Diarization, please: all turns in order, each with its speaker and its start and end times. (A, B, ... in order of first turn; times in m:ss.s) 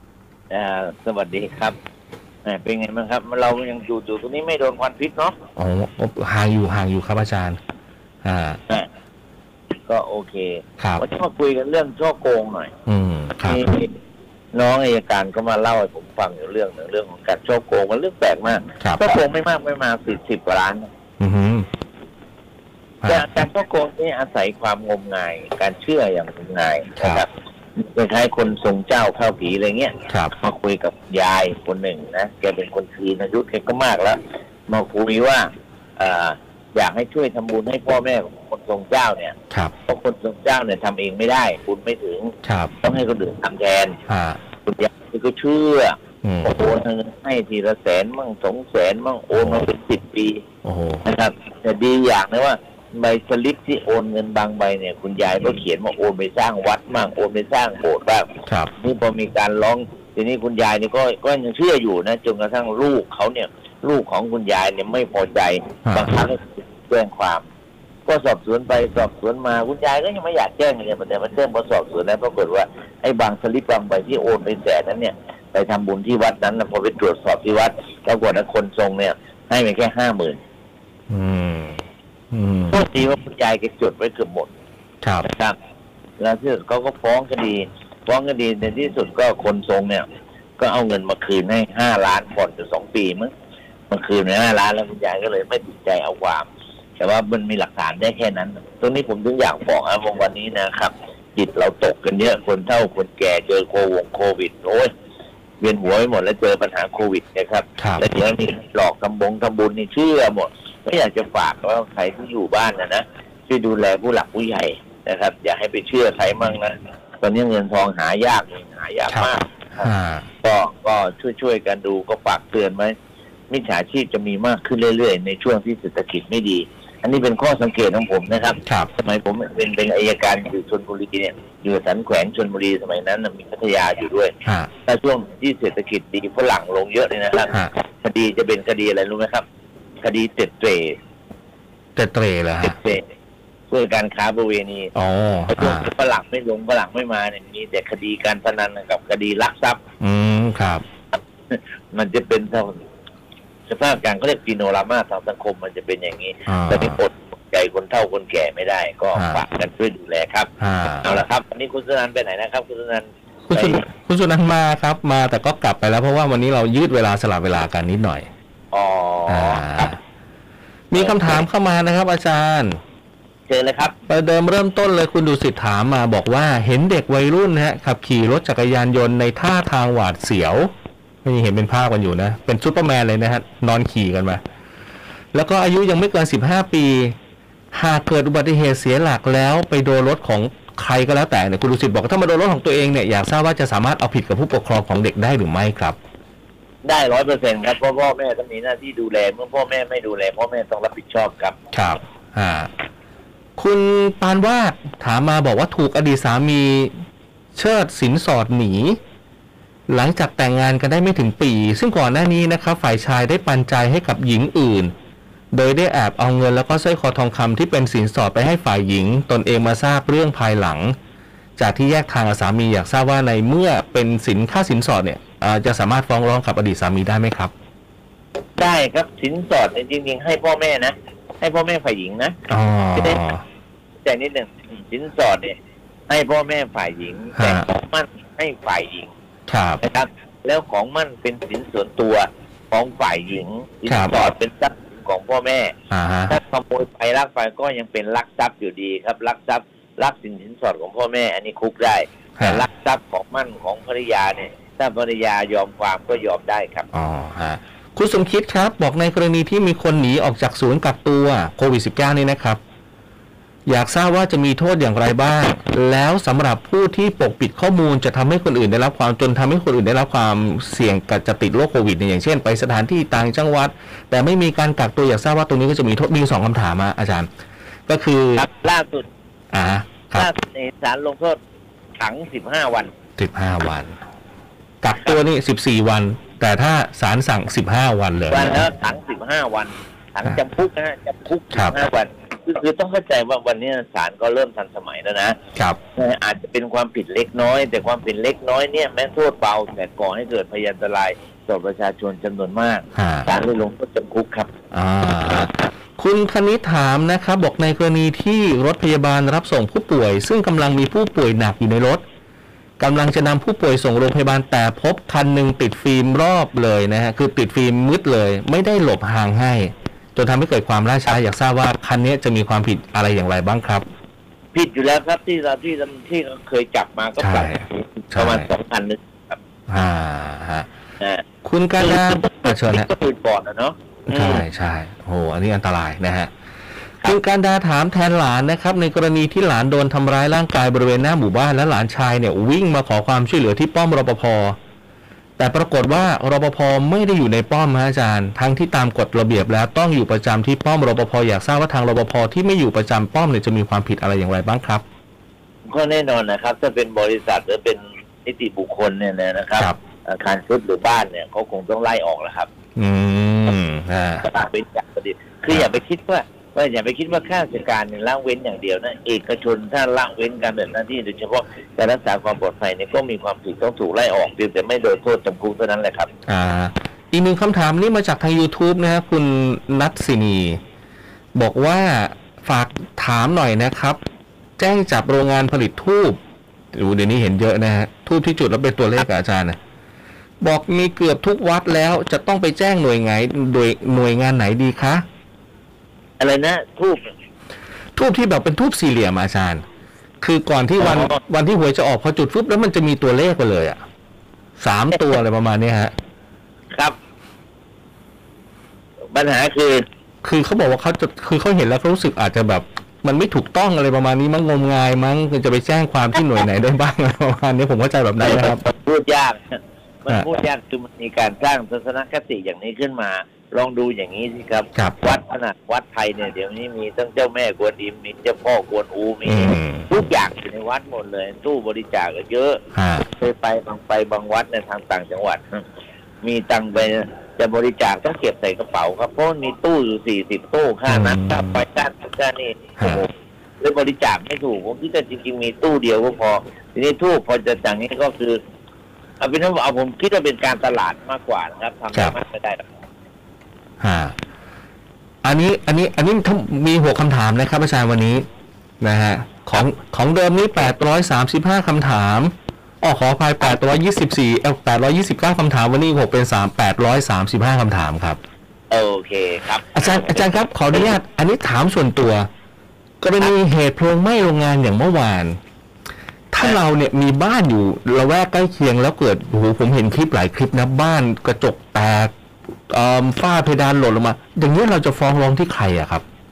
0:00.5-0:01.8 A
0:02.4-0:05.4 A
0:05.6-0:07.6 B
0:08.2-0:08.6 B
0:09.8-0:12.7 A
0:12.8-0:13.7 B
0:13.4-0:13.9 A
0:14.5-0:20.9 A
0:21.2-0:21.7 B
0:23.0-0:23.3 B
0:23.0-0:39.3 A
0:27.0-0:27.2 B
0:39.9-0:44.0 A
0:42.4-0:42.7 B
0:44.1-0:44.4 B
0:44.6-0:50.4 A
0:46.2-0:46.7 B
0:49.3-0:49.6 B
0:50.6-0:51.0 B
0:51.0-0:58.3 A
0:58.4-0:58.7 B
0:58.8-1:07.4 A
1:05.8-1:06.1 B
1:08.0-1:20.4 A
1:21.1-1:22.8 B
1:22.7-1:24.5 A
1:25.0-1:25.3 B
1:25.2-1:25.5 A
1:26.2-1:30.0 A
1:30.6-1:33.3 A
1:33.9-1:44.9 A
1:45.6-1:59.9 A
1:47.8-1:48.1 B
1:59.1-2:00.3 B
2:00.4-2:02.9 A
2:03.5-2:14.3 A
2:14.8-2:19.4 A
2:20.0-2:21.0 A
2:22.0-2:22.8 B
2:22.6-2:23.0 A
2:23.7-2:24.9 A
2:24.9-2:25.9 B
2:25.5-2:29.8 A
2:30.0-2:30.8 B
2:31.1-2:32.8 A
2:33.7-2:40.5 A
2:36.5-2:37.0 B
2:39.1-2:39.4 B
2:40.6-2:41.2 B
2:41.0-2:43.8 A
2:43.5-2:48.3 B
2:48.7-2:49.9 A
2:49.3-2:50.0 B
2:50.9-2:52.8 B
2:50.9-2:51.3 A
2:53.5-2:53.9 A
2:54.1-3:00.7 B
3:01.2-3:04.4 B
3:05.3-3:07.2 B
3:07.7-3:16.0 B
3:16.8-3:21.6 A
3:21.7-3:22.7 B
3:23.6-3:26.9 B
3:27.5-3:29.0 B
3:29.9-3:34.9 B
3:35.5-3:40.9 B
3:41.6-3:47.5 B
3:48.6-3:52.4 A
3:52.5-3:53.4 B
3:54.0-3:55.5 A
3:56.1-3:59.1 A
3:57.4-3:57.6 B
3:59.5-3:59.8 B
3:59.8-4:05.7 A
4:03.9-4:04.3 B
4:05.9-4:06.4 B
4:06.3-4:16.9 A
4:12.4-4:12.6 B
4:16.9-4:22.6 B
4:23.6-4:37.3 B
4:37.9-4:38.5 B
4:38.4-4:39.0 A
4:39.5-4:40.3 B
4:40.1-4:41.4 A
4:42.0-4:42.9 A
4:43.2-4:44.0 B
4:44.8-4:48.6 B
4:48.3-4:55.4 A
4:51.5-4:51.8 B
4:56.0-5:04.5 A
5:02.9-5:03.3 B
5:04.7-5:12.0 B
5:12.8-5:23.8 B
5:24.5-5:29.4 A
5:27.2-5:28.5 B
5:29.7-5:30.7 B
5:31.4-5:32.9 B
5:31.8-5:34.4 A
5:34.1-5:36.3 B
5:37.0-5:44.6 B
5:45.4-5:54.8 B
5:55.6-6:02.5 A
6:02.8-6:04.3 B
6:04.2-6:16.1 A
6:16.3-6:20.6 B
6:21.3-6:24.0 B
6:24.6-6:26.2 B
6:26.7-6:29.6 B
6:30.4-6:35.0 B
6:36.2-6:37.1 A
6:38.0-6:39.6 B
6:40.2-6:43.8 B
6:40.8-6:41.2 A
6:44.6-6:45.9 B
6:49.1-6:49.8 A
6:50.2-6:58.6 B
6:58.2-7:15.6 A
7:09.2-7:09.9 B
7:12.7-7:13.0 B
7:16.2-7:28.4 A
7:20.9-7:21.6 B
7:22.8-7:23.0 B
7:29.2-7:32.6 A
7:33.8-7:34.2 B
7:35.2-7:38.3 B
7:38.8-7:48.2 B
7:48.7-7:50.2 A
7:49.7-7:52.3 B
7:53.0-7:55.4 B
7:56.3-8:02.1 B
8:02.7-8:06.0 B